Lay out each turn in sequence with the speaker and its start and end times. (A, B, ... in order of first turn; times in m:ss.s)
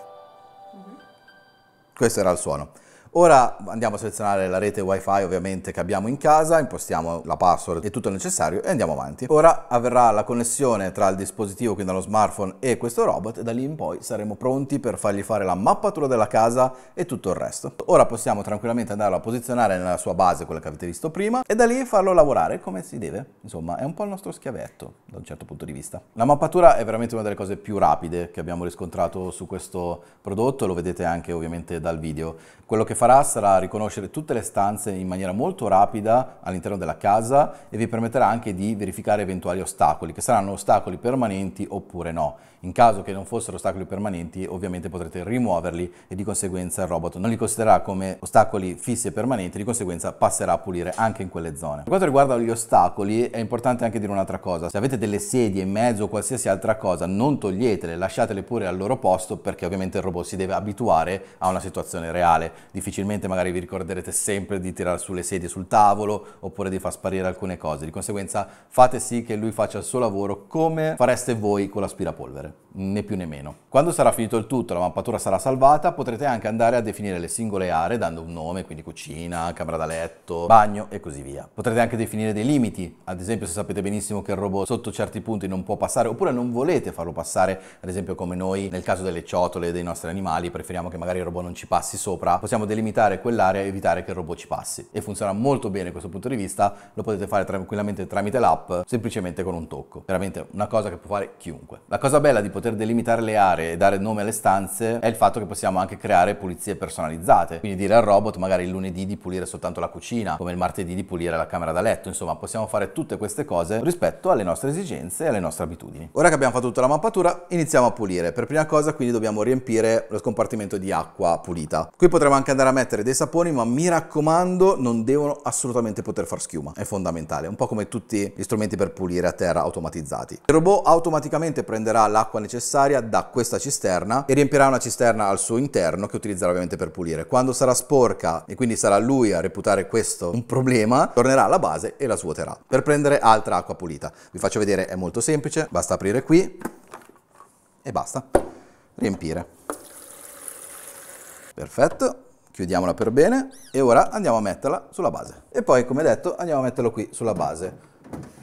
0:02.0-2:26.6 A
2:27.8-2:28.4 A
2:29.0-2:29.5 A
2:31.6-2:37.8 A